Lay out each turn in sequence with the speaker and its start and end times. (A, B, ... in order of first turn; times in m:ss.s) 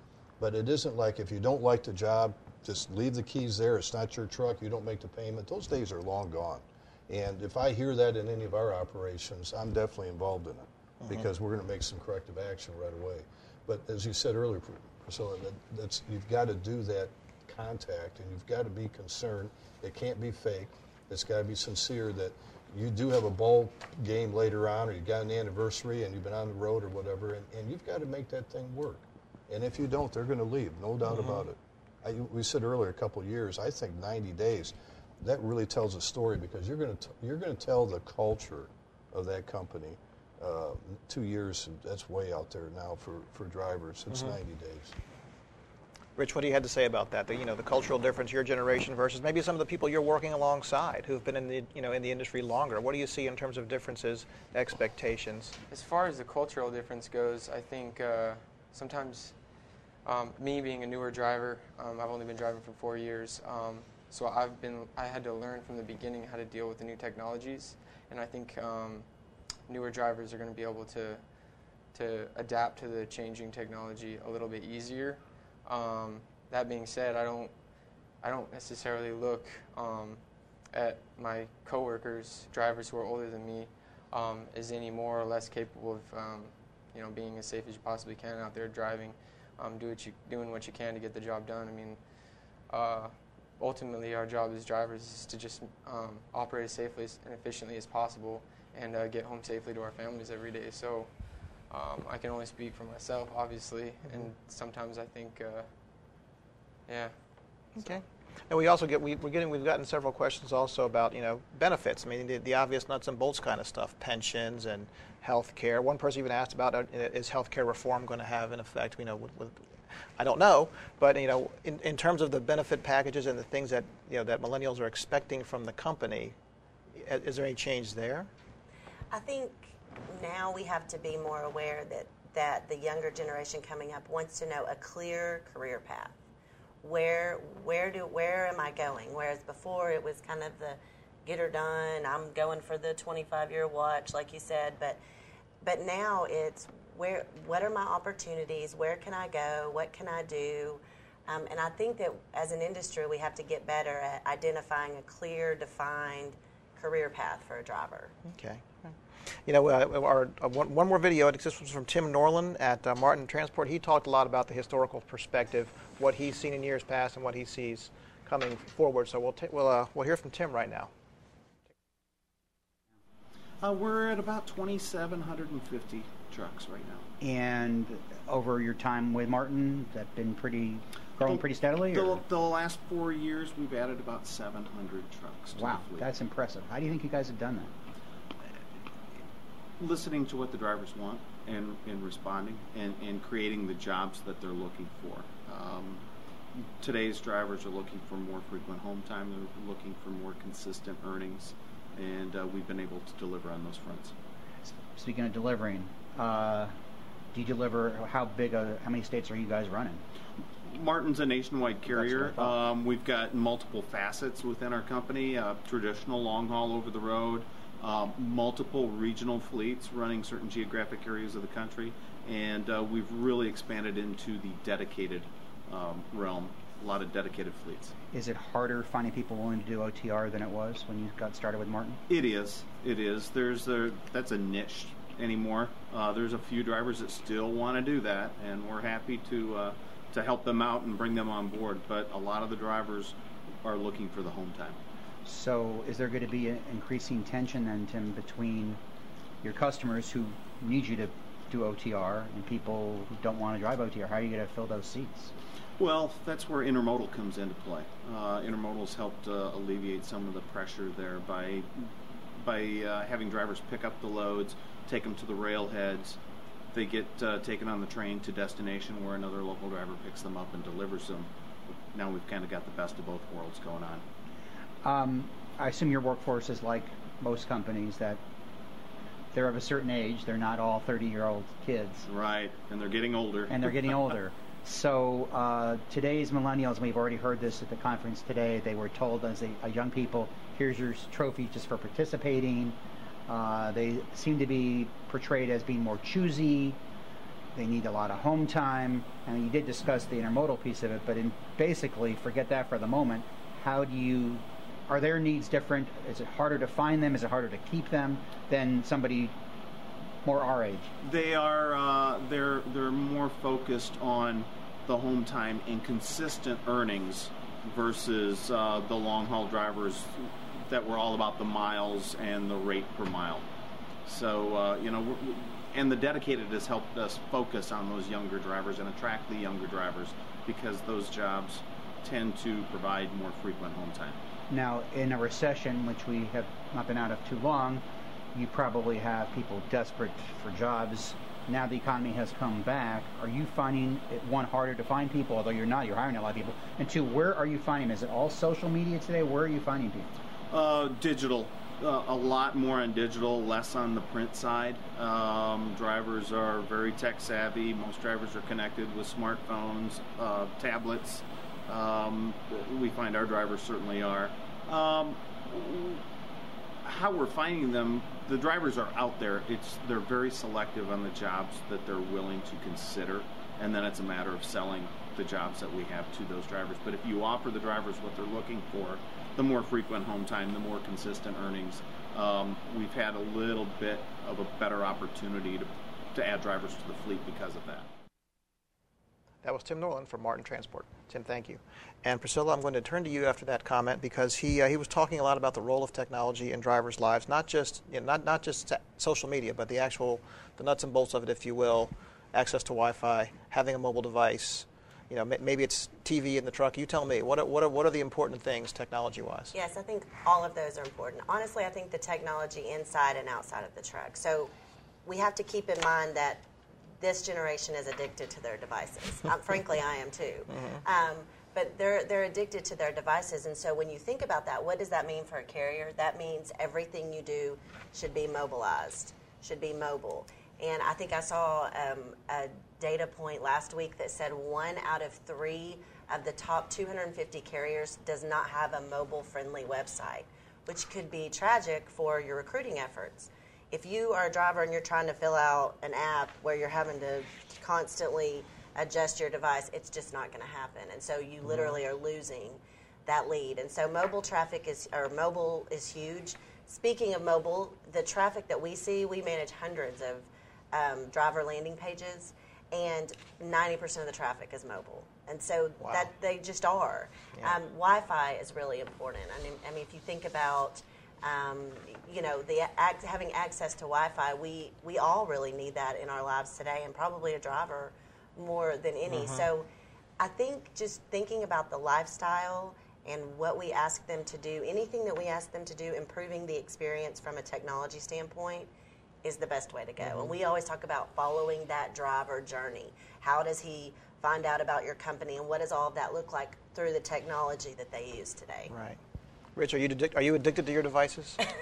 0:00.4-0:44.9 A
0:11.0-0:11.3 B
0:31.1-0:31.4 B
0:46.2-0:55.6 B
0:55.7-0:59.4 C
1:00.0-1:09.1 C
1:09.7-1:11.2 C
1:11.9-1:17.5 C
1:18.2-1:32.0 C
1:32.7-1:45.7 C
1:46.9-1:47.1 C
1:47.7-1:59.6 B
2:00.2-2:06.4 B
2:06.9-2:08.3 B
2:09.1-2:16.1 D
2:16.8-2:25.0 D
2:25.6-2:38.1 D
2:38.3-2:50.9 B
2:53.6-2:57.1 E
2:57.2-3:02.2 F
3:01.2-3:06.1 E
3:05.5-3:07.7 F
3:09.8-3:16.0 E
3:16.6-3:24.1 E
3:24.6-3:26.8 F
3:27.3-3:30.0 F
3:30.6-3:48.0 E
3:31.9-3:32.6 F
3:48.1-3:52.0 F
3:52.1-4:04.8 E
4:05.2-4:08.8 F
4:09.4-4:15.3 F
4:15.8-4:26.2 E
4:26.7-4:34.0 E
4:34.8-4:38.2 F
4:39.3-4:42.0 F
4:42.0-4:43.7 E
4:43.5-4:56.8 F
4:57.5-5:09.4 F
5:10.2-5:10.9 F
5:11.0-5:23.5 E
5:24.0-5:34.2 E
5:34.5-5:50.1 F
5:50.5-6:06.0 E
6:06.8-6:27.9 E
6:29.4-6:49.5 B
6:49.5-6:54.5 D
6:55.0-6:56.4 D
6:57.0-7:59.7 D
7:00.5-7:00.8 B
7:31.4-7:31.8 B
7:45.8-7:46.1 B
7:59.1-7:59.4 B
8:00.2-8:08.7 D
8:09.2-8:18.7 D
8:10.0-8:10.3 B
8:18.7-8:19.0 B
8:19.5-8:21.4 B